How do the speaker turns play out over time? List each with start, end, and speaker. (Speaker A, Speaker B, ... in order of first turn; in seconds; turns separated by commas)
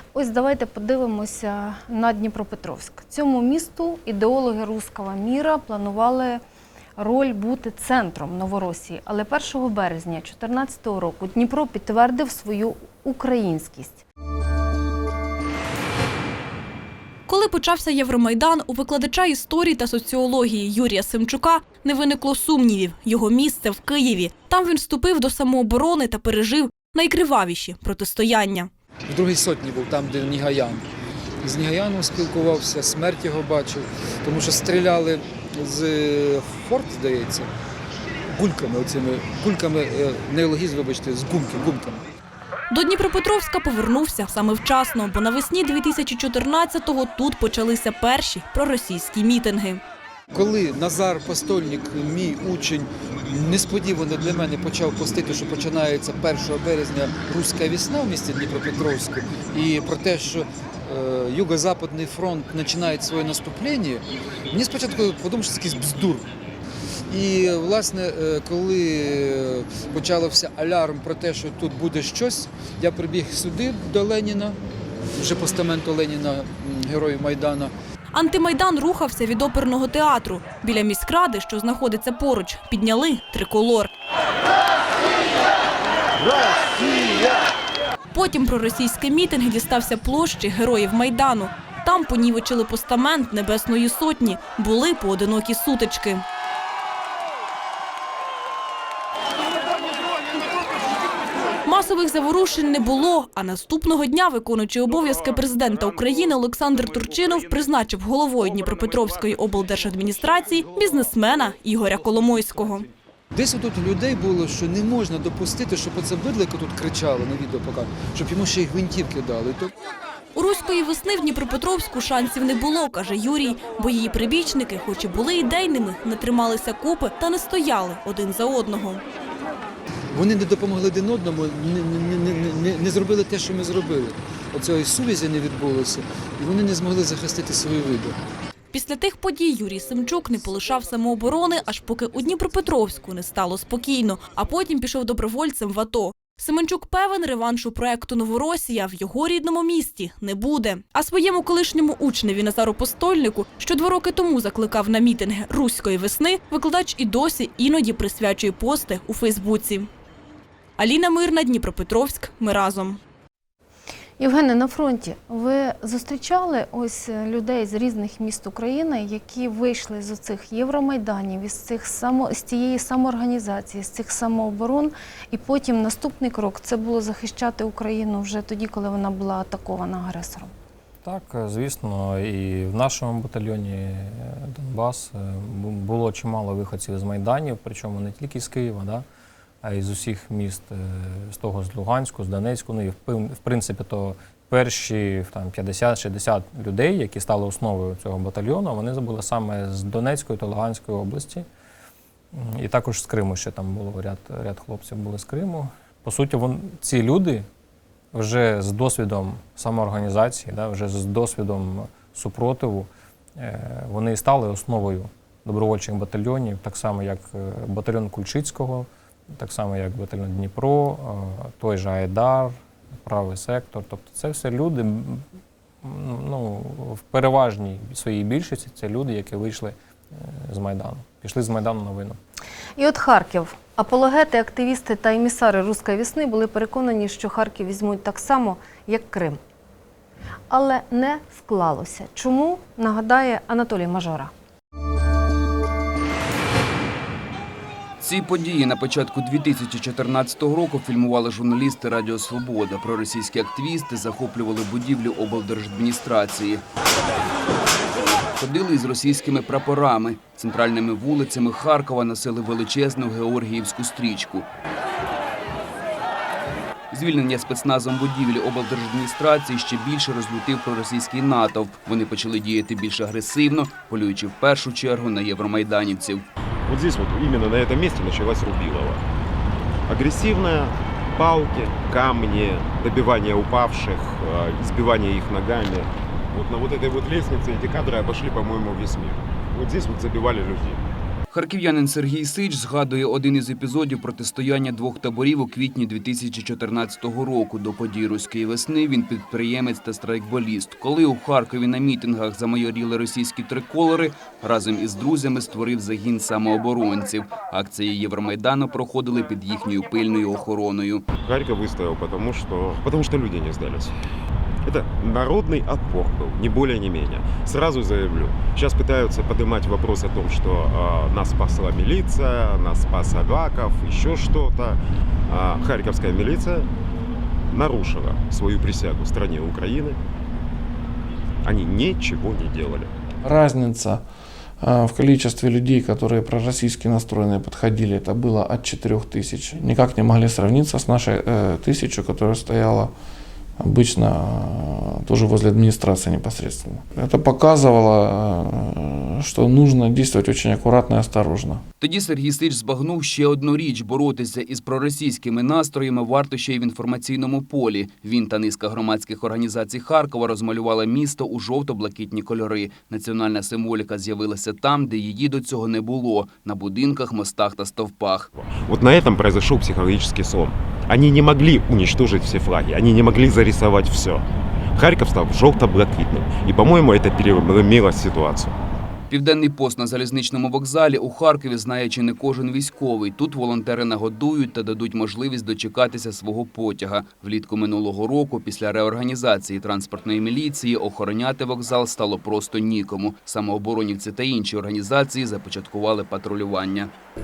Speaker A: 0.1-6.4, Speaker A: 7.0-14.0, Speaker B: 17.3-28.7, Speaker C: 29.1-30.9, Speaker C: 31.4-37.5, Speaker C: 38.3-42.0, Speaker B: 42.7-49.8, Speaker C: 50.3-66.3, Speaker C: 67.1-74.6, Speaker C: 75.1-77.7, Speaker B: 78.1-83.9, Speaker B: 88.1-96.2, Speaker B: 101.6-112.9, Speaker C: 113.3-119.7, Speaker B: 120.3-129.0, Speaker C: 130.1-138.2, Speaker B: 138.7-159.9, Speaker B: 160.8-163.0, Speaker A: 164.2-180.5, Speaker D: 181.0-189.0, Speaker D: 189.6-201.4, Speaker D: 202.3-207.5, Speaker D: 208.1-225.2, Speaker D: 225.8-232.2, Speaker A: 232.8-239.4, Speaker A: 240.5-244.3, Speaker E: 248.0-256.6, Speaker E: 258.4-264.5, Speaker E: 266.9-276.2, Speaker F: 276.6-279.0, Speaker F: 279.9-290.8, Speaker E: 291.3-311.1, Speaker F: 311.2-313.9, Speaker F: 314.6-326.7, Speaker F: 327.5-330.0, Speaker F: 331.4-332.9, Speaker G: 333.2-342.9, Speaker G: 343.6-351.6, Speaker E: 351.8-368.3, Speaker F: 368.4-374.2, Speaker F: 374.8-378.5, Speaker E: 379.1-396.9